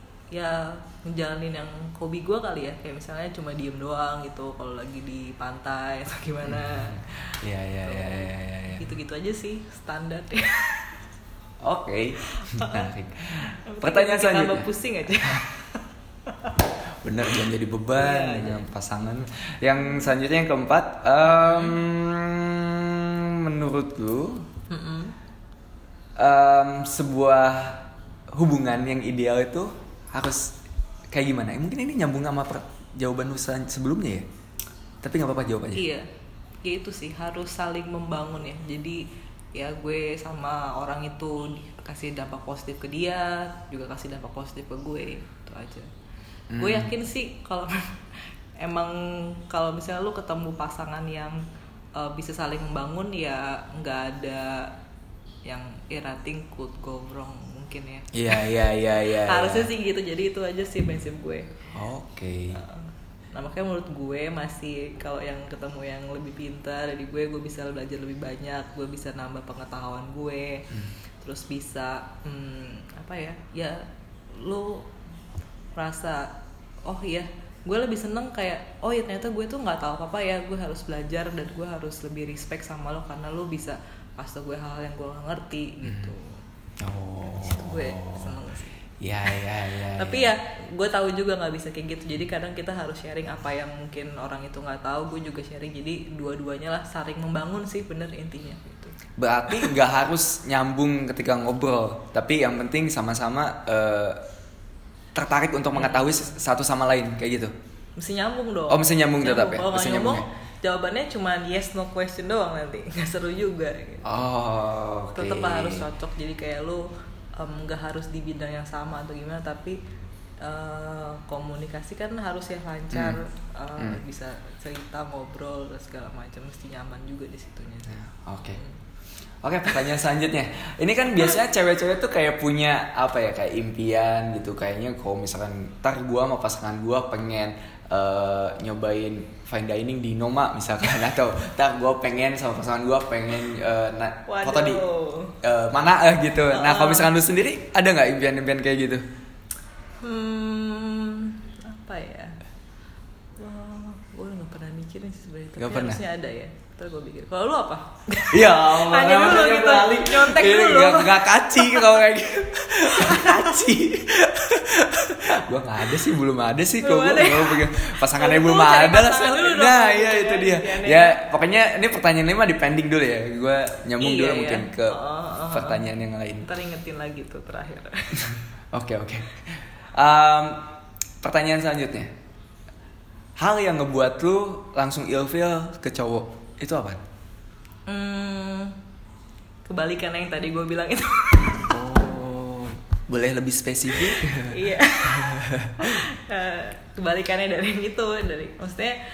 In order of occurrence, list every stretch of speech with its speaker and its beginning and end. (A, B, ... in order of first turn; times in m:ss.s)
0:00.3-0:07.2 A
0:06.4-0:08.8 B
0:07.8-0:10.9 A
0:11.6-0:14.7 B
0:12.3-0:12.9 A
0:13.6-0:16.6 A
0:17.0-0:24.4 B
0:17.9-0:18.7 A
0:19.8-0:20.1 A
0:21.2-0:21.8 A
0:24.7-0:25.1 A
0:26.2-0:27.8 B
0:28.3-0:30.5 B
0:31.1-0:34.2 B
0:35.0-0:35.8 B
0:35.7-0:36.1 A
0:36.6-0:39.0 A
0:39.5-0:45.9 A
0:46.5-0:46.9 B
0:46.6-0:47.9 A
0:48.6-0:51.4 A
0:52.0-0:54.7 A
0:55.4-1:01.5 A
0:58.1-0:59.7 B
1:01.7-1:02.6 B
1:02.6-1:10.7 A
1:11.2-1:14.9 A
1:15.8-1:16.3 A
1:16.8-1:26.3 A
1:25.8-1:26.1 B
1:26.8-1:28.3 B
1:27.4-1:28.8 A
1:29.0-1:30.3 B
1:29.9-1:38.9 A
1:39.2-1:44.2 B
1:45.2-1:47.5 B
1:45.7-1:46.2 A
1:48.0-1:54.0 A
1:48.7-1:50.2 B
1:54.0-1:55.8 B
1:55.2-1:56.8 A
1:57.4-1:59.8 A
2:00.4-2:08.8 A
2:02.9-2:03.2 B
2:07.9-2:08.6 B
2:09.4-2:24.8 B
2:24.3-2:25.4 A
2:25.4-2:29.0 B
2:26.5-2:27.1 A
2:30.0-2:32.4 A
2:33.4-2:42.0 A
2:35.6-2:36.0 B
2:38.3-2:56.5 B
2:42.9-2:43.6 A
2:46.8-2:51.2 A
2:54.0-2:55.9 A
2:56.4-2:58.4 A
2:58.7-2:59.4 B
3:00.0-3:00.6 B
3:01.2-3:02.1 B
3:03.4-3:07.0 B
3:07.9-3:08.7 A
3:09.7-3:11.8 A
3:11.7-3:14.6 B
3:14.1-3:19.0 A
3:15.1-3:15.8 B